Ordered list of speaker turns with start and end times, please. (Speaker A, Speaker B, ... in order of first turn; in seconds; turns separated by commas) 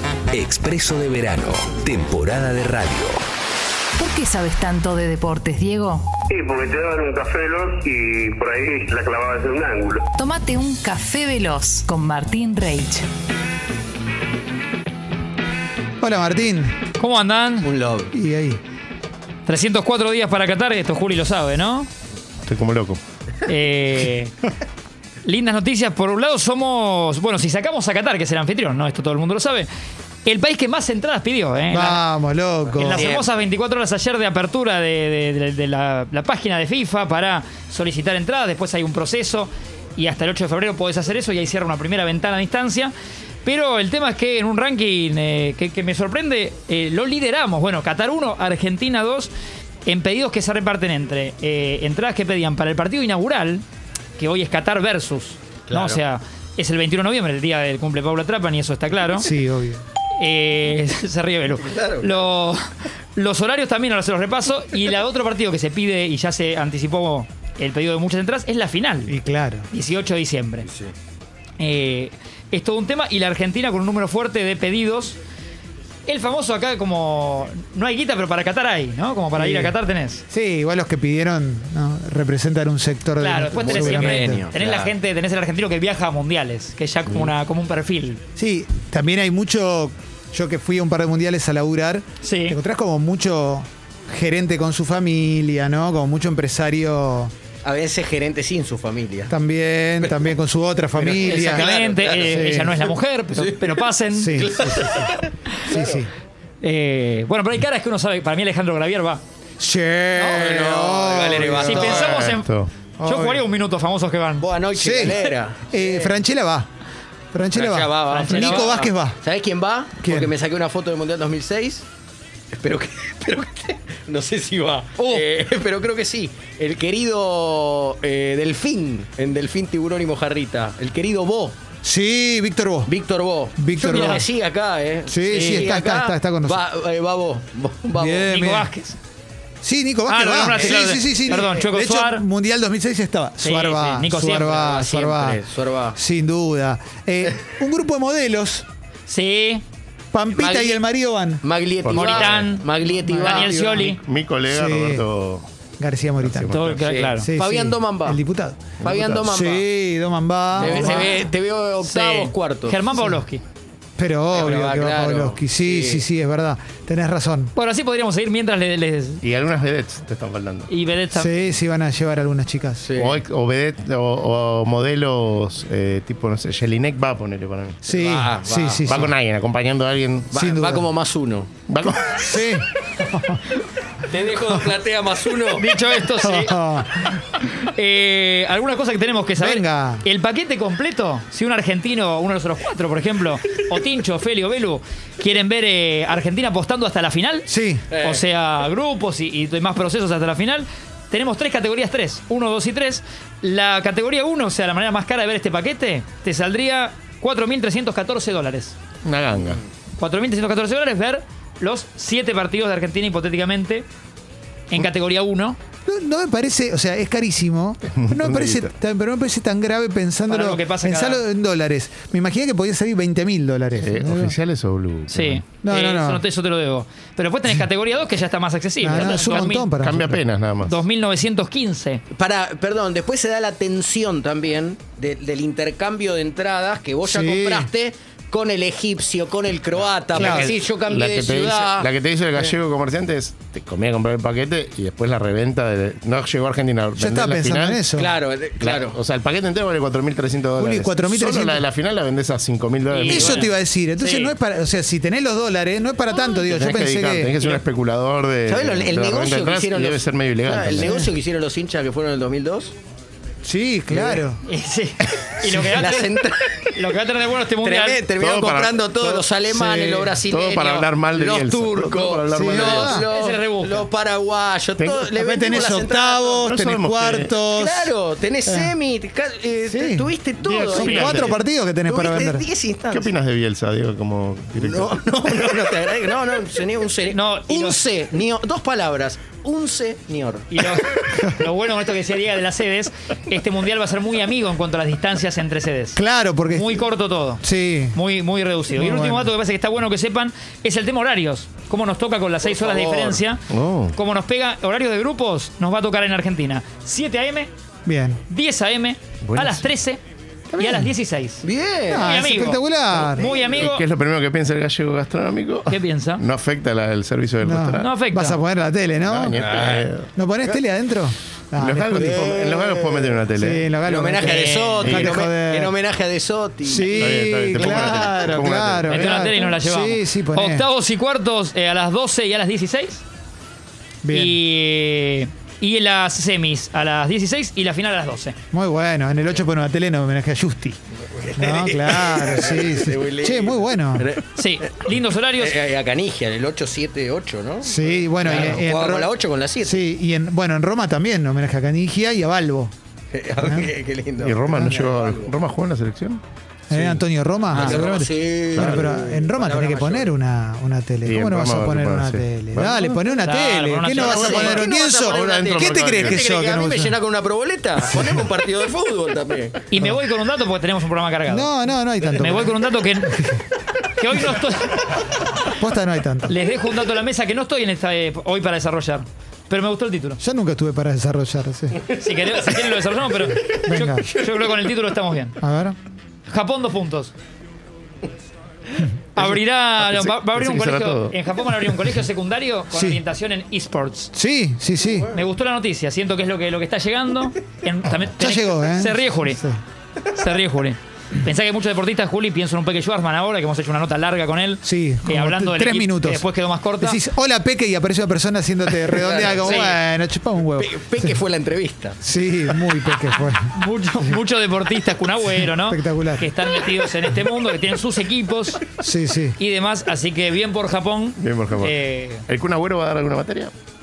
Speaker A: 0.3-3.2, Speaker B: 4.0-6.1, Speaker C: 6.3-10.0, Speaker B: 10.2-13.1, Speaker D: 16.0-16.7, Speaker E: 17.0-17.7, Speaker F: 17.6-18.1, Speaker D: 18.1-18.6, Speaker E: 19.4-21.9, Speaker G: 22.4-23.0, Speaker E: 23.4-24.3, Speaker E: 25.2-29.7, Speaker E: 30.2-32.0, Speaker D: 31.7-33.2, Speaker E: 32.8-42.9, Speaker F: 32.9-33.2, Speaker E: 43.4-49.3, Speaker E: 49.9-53.6, Speaker E: 54.2-59.3, Speaker F: 55.7-56.0, Speaker D: 59.1-59.8, Speaker E: 60.2-69.2, Speaker F: 61.7-62.1, Speaker D: 69.1-69.7, Speaker E: 69.7-70.7, Speaker E: 71.6-75.2, Speaker E: 76.1-80.2, Speaker D: 79.3-79.7, Speaker D: 80.3-84.5, Speaker E: 83.2-88.2, Speaker F: 83.6-84.9, Speaker D: 88.3-97.3, Speaker E: 92.2-92.6, Speaker F: 97.6-99.3, Speaker D: 99.3-102.9, Speaker F: 100.0-100.3, Speaker F: 100.9-102.6, Speaker E: 101.2-104.5, Speaker F: 103.3-106.0, Speaker D: 104.1-105.1, Speaker D: 105.6-106.1, Speaker E: 106.6-109.2, Speaker D: 109.6-112.1, Speaker E: 110.1-110.5, Speaker F: 110.3-112.3, Speaker E: 111.6-112.5, Speaker G: 111.9-112.7, Speaker D: 113.0-113.5, Speaker E: 113.0-114.5, Speaker F: 114.4-116.1, Speaker D: 114.7-116.7, Speaker D: 117.3-119.2, Speaker F: 117.5-121.8, Speaker E: 118.1-118.7, Speaker D: 120.0-120.3, Speaker F: 122.5-131.6, Speaker D: 131.8-132.9, Speaker F: 132.9-138.4, Speaker D: 133.6-134.3, Speaker E: 133.8-134.2, Speaker D: 135.1-136.6, Speaker D: 137.9-138.7, Speaker E: 138.3-139.0, Speaker D: 139.6-145.4, Speaker E: 140.1-142.2, Speaker F: 140.5-141.5, Speaker E: 143.4-145.0, Speaker F: 144.7-146.0, Speaker D: 145.9-148.7, Speaker E: 149.1-149.6, Speaker D: 150.1-151.4, Speaker F: 150.3-150.8, Speaker F: 151.4-153.8, Speaker G: 151.9-152.4, Speaker E: 151.9-154.0, Speaker D: 152.9-154.0, Speaker G: 153.8-155.5, Speaker D: 154.5-155.1, Speaker D: 155.8-156.6, Speaker G: 156.2-156.9, Speaker E: 156.5-157.3, Speaker F: 156.8-158.2, Speaker D: 157.2-161.2, Speaker G: 158.8-159.2, Speaker F: 158.8-159.7, Speaker F: 160.6-162.8, Speaker E: 160.6-163.4, Speaker D: 162.9-163.2, Speaker D: 164.0-167.5, Speaker F: 164.3-166.0, Speaker E: 167.5-169.2, Speaker G: 169.2-170.7, Speaker E: 170.7-171.3, Speaker D: 171.1-172.9, Speaker F: 172.8-173.2, Speaker G: 172.9-177.8, Speaker D: 177.8-179.1, Speaker F: 177.9-179.0, Speaker G: 178.8-180.4, Speaker F: 180.3-181.5, Speaker D: 180.3-180.9, Speaker G: 181.7-182.4, Speaker D: 182.1-183.4, Speaker F: 184.1-185.7, Speaker E: 185.6-208.7, Speaker D: 186.2-187.1, Speaker D: 189.4-190.0, Speaker D: 197.5-197.8, Speaker F: 197.9-198.2, Speaker G: 209.0-209.6, Speaker E: 210.0-213.9, Speaker E: 214.7-215.6, Speaker D: 215.8-224.3, Speaker G: 217.9-218.7, Speaker E: 220.3-221.2, Speaker G: 223.8-225.4, Speaker E: 225.1-229.7, Speaker D: 225.6-226.2, Speaker D: 228.8-230.2, Speaker G: 229.0-230.8, Speaker E: 230.6-232.0, Speaker F: 232.1-242.5, Speaker D: 237.0-237.7, Speaker G: 240.1-247.8, Speaker D: 240.1-240.5, Speaker D: 247.0-248.1, Speaker F: 247.9-249.0, Speaker G: 248.6-253.5, Speaker D: 250.6-251.6, Speaker E: 252.9-254.3, Speaker D: 253.1-257.3, Speaker G: 256.4-260.9, Speaker F: 258.4-262.7, Speaker D: 260.8-261.1, Speaker D: 263.4-264.4, Speaker F: 263.9-264.2, Speaker E: 264.4-266.2, Speaker F: 265.5-266.7, Speaker E: 266.7-268.0, Speaker F: 267.6-276.5, Speaker G: 268.2-269.4, Speaker D: 269.5-270.1, Speaker G: 269.9-273.1, Speaker D: 272.3-273.1, Speaker E: 273.1-273.9, Speaker G: 274.8-275.1, Speaker D: 275.1-277.9, Speaker G: 276.4-277.4, Speaker F: 277.4-281.3, Speaker D: 278.4-278.7, Speaker D: 279.7-282.4, Speaker G: 280.5-281.4, Speaker E: 280.8-281.2, Speaker F: 281.9-283.1, Speaker G: 282.9-285.0, Speaker F: 284.6-290.5, Speaker E: 287.1-287.8, Speaker E: 290.5-303.4, Speaker D: 295.9-296.8, Speaker D: 297.4-298.0, Speaker D: 298.7-299.3, Speaker F: 302.4-303.2, Speaker G: 303.5-303.9, Speaker E: 303.9-307.5, Speaker D: 307.9-308.2, Speaker E: 308.3-310.0, Speaker G: 309.2-309.7, Speaker D: 310.5-310.9, Speaker E: 310.6-313.8, Speaker F: 311.4-312.2, Speaker D: 311.9-313.3, Speaker F: 313.2-313.7, Speaker G: 313.6-317.9, Speaker E: 315.7-316.2, Speaker D: 317.4-319.4, Speaker E: 317.8-318.4, Speaker G: 319.0-320.1, Speaker F: 319.3-320.6, Speaker D: 320.1-322.2, Speaker G: 321.6-323.7, Speaker F: 321.9-323.2, Speaker D: 323.4-325.8, Speaker F: 323.8-328.5, Speaker E: 324.2-325.0, Speaker G: 324.8-325.1, Speaker D: 326.6-330.7, Speaker G: 326.9-329.3, Speaker E: 328.8-333.0, Speaker D: 334.0-334.4, Speaker E: 334.1-338.4, Speaker D: 338.5-340.8, Speaker F: 341.2-344.2, Speaker D: 341.3-344.1, Speaker E: 344.4-345.6, Speaker F: 345.4-349.8, Speaker D: 347.6-352.7, Speaker F: 353.1-355.3, Speaker D: 353.4-353.7, Speaker G: 354.2-356.2, Speaker D: 354.3-354.7, Speaker D: 356.7-367.0, Speaker F: 356.7-357.0, Speaker G: 357.5-357.9, Speaker F: 357.5-360.1, Speaker G: 358.5-358.9, Speaker G: 361.1-363.1, Speaker E: 363.2-364.6, Speaker F: 363.9-369.6, Speaker G: 363.9-366.2, Speaker D: 367.8-368.2, Speaker E: 369.7-373.2, Speaker D: 369.8-370.0, Speaker D: 371.3-373.4, Speaker E: 374.0-374.9, Speaker D: 375.5-376.4, Speaker E: 376.3-380.2, Speaker D: 380.2-381.8, Speaker E: 381.9-385.4, Speaker D: 383.5-384.1, Speaker D: 385.4-385.8, Speaker E: 386.3-387.1, Speaker E: 389.1-394.1, Speaker G: 389.8-391.1, Speaker D: 392.7-393.0, Speaker D: 394.1-395.2, Speaker E: 395.0-399.4, Speaker D: 398.0-399.6, Speaker E: 400.1-407.0, Speaker D: 404.6-406.3, Speaker D: 406.8-411.1, Speaker F: 408.9-409.7, Speaker E: 409.4-409.8, Speaker F: 410.6-412.0, Speaker D: 412.0-414.2, Speaker E: 413.5-418.7, Speaker D: 415.5-416.3, Speaker D: 418.8-419.4, Speaker E: 419.4-422.2, Speaker G: 421.2-423.5